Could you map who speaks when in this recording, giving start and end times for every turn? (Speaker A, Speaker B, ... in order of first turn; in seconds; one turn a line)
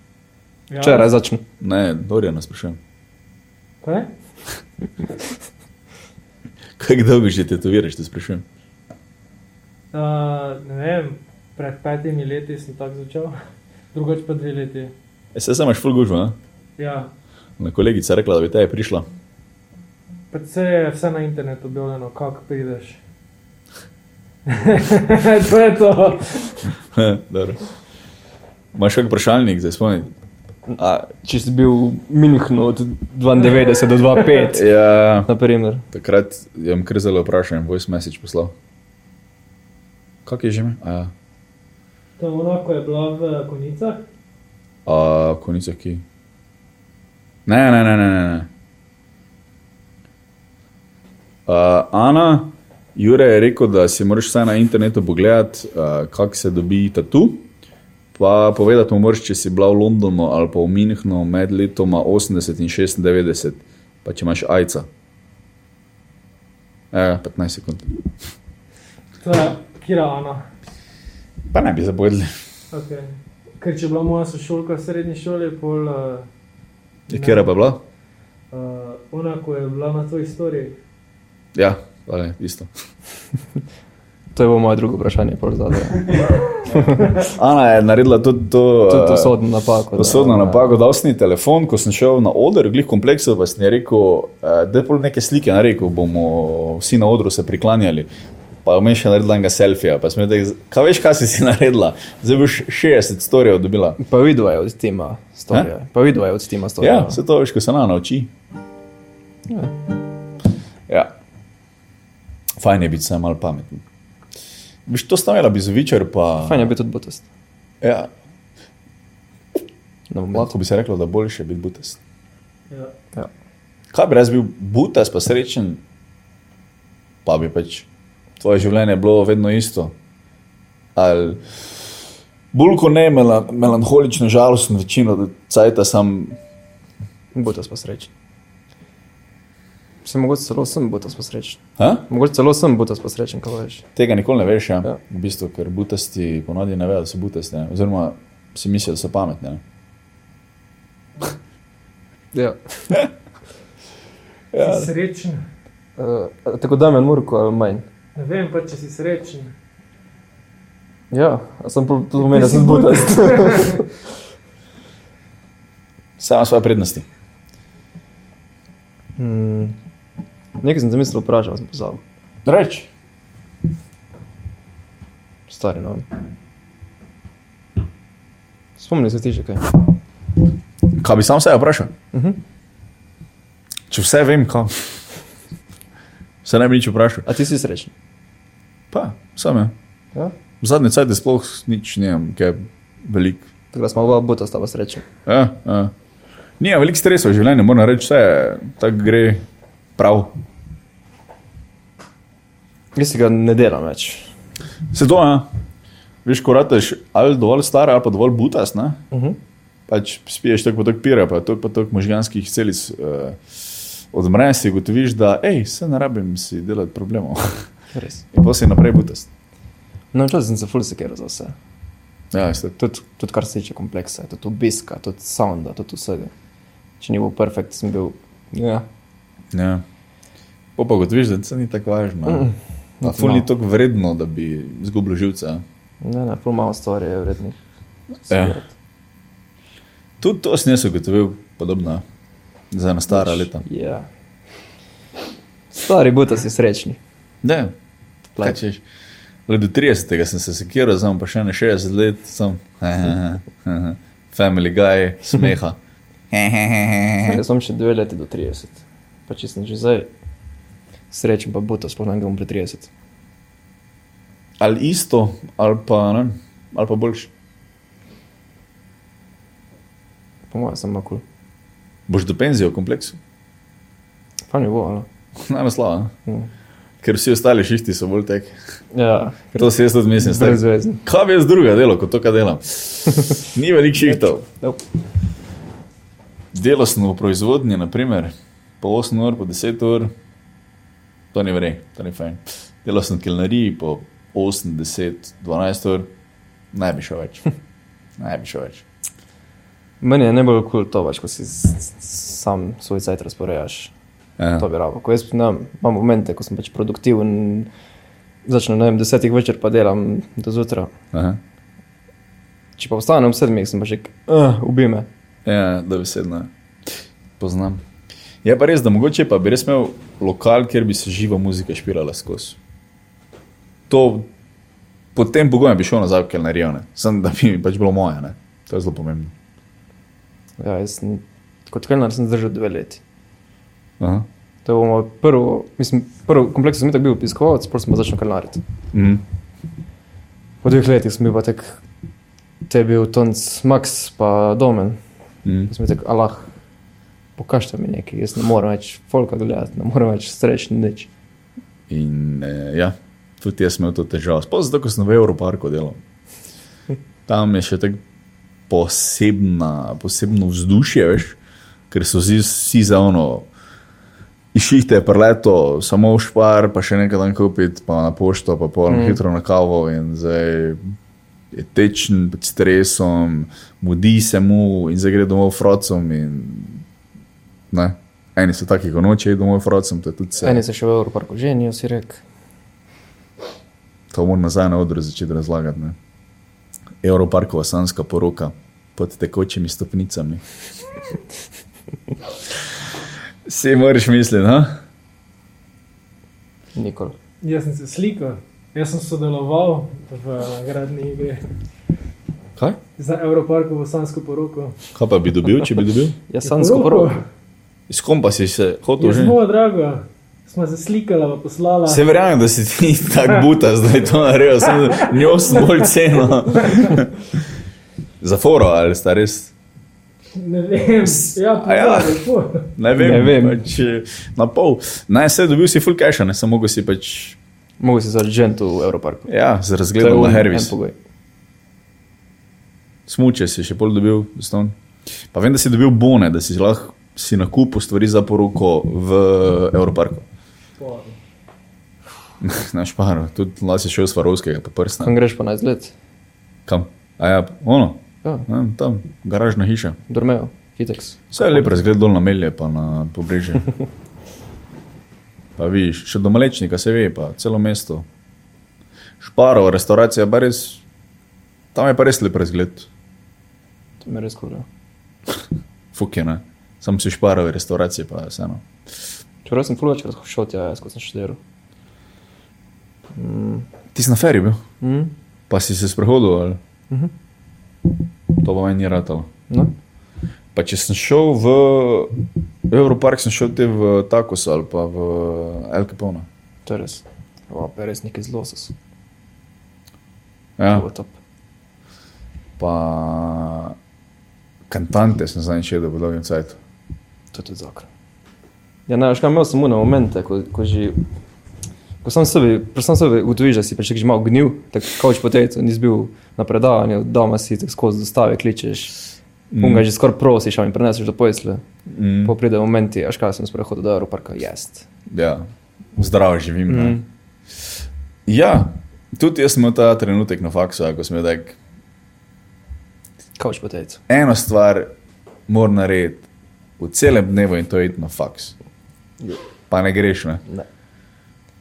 Speaker A: 0.7-1.1
Speaker B: 0.8-1.4
Speaker C: 1.6-2.8
Speaker A: 3.8-4.1
Speaker C: 6.8-8.4
Speaker A: 9.9-13.3
Speaker A: 13.9-14.9
Speaker C: 15.3-16.4
Speaker A: 16.8-17.1
Speaker C: 17.6-19.1
Speaker A: 20.3-23.0
Speaker A: 24.5-26.7
Speaker C: 26.9-27.6
Speaker C: 28.7-30.1
Speaker B: 30.7-34.7
Speaker C: 30.8-31.1
Speaker C: 34.5-35.3
Speaker B: 35.2-35.9
Speaker C: 35.9-38.5
Speaker C: 40.2-41.1
Speaker A: 42.2-44.0
Speaker C: 44.9-46.0
Speaker C: 47.5-48.5
Speaker C: 51.5-57.5
Speaker C: 58.1-64.9
Speaker C: 66.9-68.0
Speaker A: 69.2-70.5
Speaker C: 71.5-72.3
Speaker A: 72.7-76.3
Speaker A: 77.1-77.5
Speaker C: 77.1-77.8
Speaker A: 78.5-80.8
Speaker C: 81.5-82.7
Speaker B: 84.3-87.2
Speaker C: 86.7-89.4
Speaker B: 88.9-90.8
Speaker C: 89.9-98.1
Speaker C: 98.7-104.0
Speaker B: 104.0-107.2
Speaker C: 106.8-108.3
Speaker B: 109.5-109.7
Speaker C: 110.9-111.1
Speaker C: 112.6-113.8
Speaker C: 114.9-116.7
Speaker B: 116.4-117.3
Speaker C: 117.8-118.1
Speaker B: 120.1-120.5
Speaker C: 120.3-122.0
Speaker C: 123.9-125.8
Speaker C: 127.2-127.9
Speaker C: 128.4-129.9
Speaker C: 131.0-131.9
Speaker C: 132.5-136.4
Speaker B: 137.3-138.1
Speaker B: 140.1-143.8
Speaker C: 141.8-142.1
Speaker C: 144.0-149.6
Speaker B: 152.3-153.0
Speaker C: 154.5-154.9
Speaker A: 154.6-155.5
Speaker B: 156.0-157.8
Speaker A: 158.2-159.5
Speaker B: 161.1-163.9
Speaker A: 162.3-163.8
Speaker C: 166.2-167.1
Speaker B: 169.2-169.8
Speaker B: 170.6-172.0
Speaker C: 172.4-172.9
Speaker B: 175.5-176.1
Speaker B: 178.8-179.8
Speaker C: 181.0-181.9
Speaker B: 182.1-182.4
Speaker C: 183.9-185.0
Speaker C: 186.4-187.3
Speaker B: 187.2-187.9
Speaker C: 188.9-189.7
Speaker C: 190.6-193.5
Speaker B: 193.7-195.0
Speaker C: 195.3-195.9
Speaker C: 196.6-199.4
Speaker C: 200.0-200.3
Speaker B: 202.9-204.3
Speaker C: 204.9-205.5
Speaker C: 206.2-209.0
Speaker B: 209.1-209.4
Speaker C: 209.9-217.7
Speaker B: 217.9-218.2
Speaker C: 218.3-219.3
Speaker B: 220.1-221.6
Speaker C: 222.3-222.8
Speaker B: 222.8-226.3
Speaker B: 227.0-228.9
Speaker C: 229.5-229.8
Speaker C: 230.8-232.5
Speaker B: 232.3-233.5
Speaker C: 233.0-235.6
Speaker B: 236.0-237.6
Speaker B: 238.3-238.7
Speaker C: 238.3-238.6
Speaker C: 240.2-242.1
Speaker C: 242.7-243.6
Speaker B: 243.1-244.1
Speaker B: 245.7-247.0
Speaker C: 247.4-247.7
Speaker C: 248.4-248.8
Speaker C: 249.5-255.8
Speaker C: 256.3-257.4
Speaker B: 257.2-260.1
Speaker B: 261.1-262.9
Speaker C: 264.6-267.3
Speaker B: 270.5-271.2
Speaker C: 272.1-273.2
Speaker B: 274.5-275.1
Speaker C: 275.4-276.1
Speaker C: 277.0-278.5
Speaker B: 278.9-279.6
Speaker C: 279.5-284.4
Speaker B: 280.2-281.0
Speaker B: 284.0-284.8
Speaker C: 286.5-290.1
Speaker C: 291.3-296.1
Speaker C: 296.7-297.5
Speaker C: 298.2-298.9
Speaker B: 300.0-303.9
Speaker C: 304.4-304.7
Speaker B: 304.6-307.7
Speaker B: 308.5-310.9
Speaker C: 311.1-311.4
Speaker B: 312.8-315.1
Speaker C: 315.4-316.5
Speaker C: 317.4-317.8
Speaker C: 318.4-322.6
Speaker C: 323.9-324.3
Speaker C: 325.1-329.3
Speaker B: 330.6-333.0
Speaker C: 334.0-334.3
Speaker B: 334.6-338.6
Speaker C: 338.9-339.2
Speaker B: 340.6-341.8
Speaker B: 342.7-345.0
Speaker C: 345.4-345.7
Speaker B: 345.7-346.5
Speaker B: 347.4-351.1
Speaker C: 351.9-356.0
Speaker C: 357.3-358.0
Speaker C: 358.7-361.4
Speaker C: 361.9-363.5
Speaker C: 364.5-370.8
Speaker B: 368.9-369.2
Speaker C: 371.5-376.9
Speaker C: 377.7-380.6
Speaker B: 380.4-382.2
Speaker C: 384.1-386.0
Speaker C: 387.0-390.4
Speaker C: 393.4-394.8
Speaker B: 396.8-397.1
Speaker A: 397.4-401.5
Speaker A: 403.0-404.8
Speaker C: 404.9-406.1
Speaker B: 406.3-407.2
Speaker A: 406.4-407.2
Speaker C: 407.9-409.4
Speaker A: 409.0-412.0
Speaker C: 411.9-417.2
Speaker A: 414.9-415.3
Speaker C: 418.2-419.5
Speaker A: 420.4-422.7
Speaker C: 421.5-422.2
Speaker C: 422.8-427.4
Speaker B: 422.9-423.6
Speaker B: 427.8-429.3
Speaker C: 429.3-430.8
Speaker B: 430.0-431.0
Speaker C: 433.1-434.8
Speaker C: 435.3-440.2
Speaker A: 440.8-441.1
Speaker C: 442.4-445.1
Speaker B: 445.0-445.9
Speaker C: 446.7-450.0
Speaker B: 450.1-451.7
Speaker C: 451.3-453.7
Speaker C: 455.6-458.1
Speaker C: 459.2-460.8
Speaker C: 461.7-462.9
Speaker B: 464.0-464.6
Speaker C: 465.9-468.6
Speaker B: 469.4-471.4
Speaker B: 473.1-473.6
Speaker C: 473.9-474.6
Speaker B: 474.8-475.1
Speaker C: 475.5-476.6
Speaker C: 478.4-479.3
Speaker B: 479.5-479.7
Speaker C: 480.6-482.1
Speaker C: 482.7-486.3
Speaker B: 486.6-488.8
Speaker C: 490.6-490.9
Speaker B: 490.7-491.1
Speaker C: 492.6-493.8
Speaker C: 494.7-496.6
Speaker B: 497.3-497.9
Speaker B: 498.9-501.0
Speaker B: 502.0-509.0
Speaker C: 509.5-509.9
Speaker B: 509.6-511.6
Speaker C: 511.9-512.4
Speaker B: 512.2-514.9
Speaker C: 515.1-517.0
Speaker B: 516.7-517.0
Speaker C: 518.3-521.6
Speaker B: 523.4-524.0
Speaker C: 524.1-524.9
Speaker C: 525.5-526.3
Speaker C: 526.8-528.6
Speaker C: 529.7-530.4